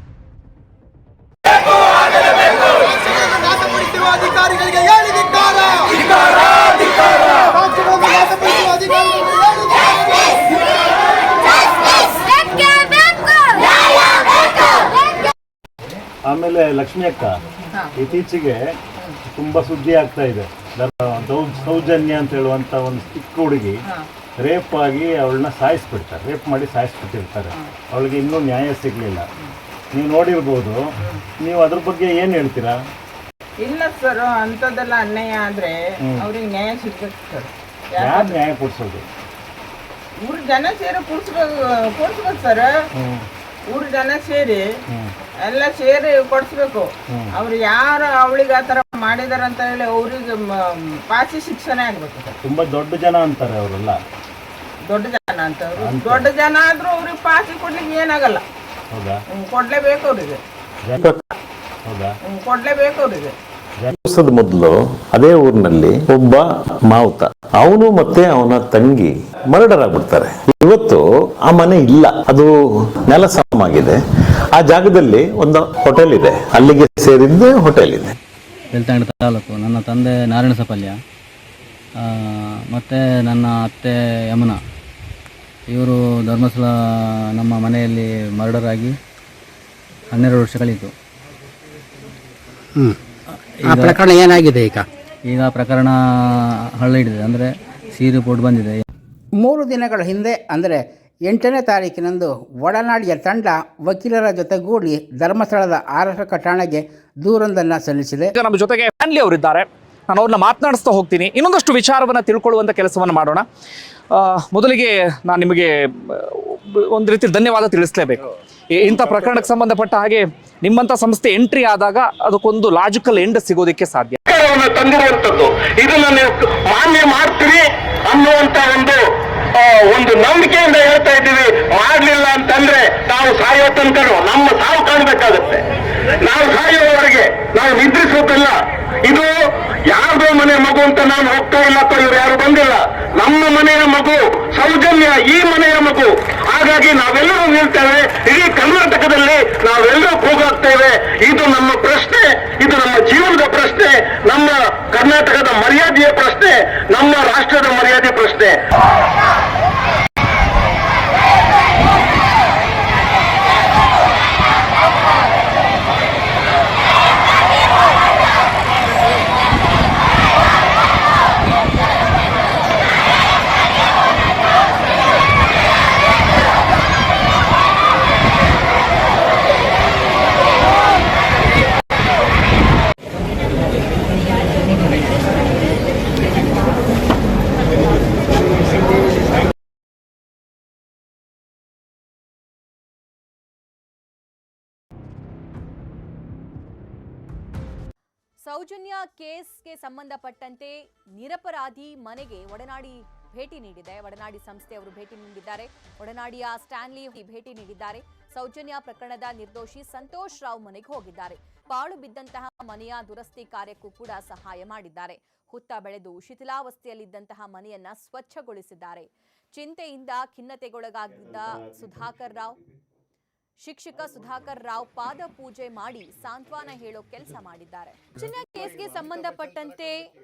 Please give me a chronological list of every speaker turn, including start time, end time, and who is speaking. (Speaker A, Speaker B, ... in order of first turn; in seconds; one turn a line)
Speaker A: 16.3-17.3
Speaker A: 18.0-18.6
Speaker A: 19.3-23.7
Speaker A: 24.4-29.2
Speaker A: 29.9-30.8
Speaker A: 31.4-32.7
Speaker B: 33.6-38.4
Speaker A: 38.1-39.0
Speaker B: 40.2-42.7
Speaker B: 43.7-44.6
Speaker B: 45.4-50.3
Speaker B: 51.1-52.4
Speaker A: 52.5-53.9
Speaker B: 54.9-58.4
Speaker A: 55.8-56.1
Speaker B: 59.3-60.4
Speaker A: 60.9-61.2
Speaker B: 62.3-63.3
Speaker A: 63.8-72.5
Speaker A: 73.1-74.0
Speaker A: 74.5-78.1
Speaker C: 78.7-81.0
Speaker C: 82.0-84.6
Speaker C: 85.7-86.7
Speaker C: 87.3-89.0
Speaker C: 90.1-90.9
Speaker C: 93.6-94.0
Speaker D: 93.6-94.8
Speaker C: 95.3-96.0
Speaker C: 96.8-98.8
Speaker D: 99.4-108.3
Speaker E: 108.4-113.5
Speaker E: 114.2-118.2
Speaker E: 118.8-124.2
Speaker F: 124.3-129.0
Speaker F: 129.5-135.6
Speaker F: 136.2-138.5
Speaker F: 139.1-139.3
Speaker F: 139.9-158.6
Speaker G: 198.4-222.6
Speaker G: 223.6-229.9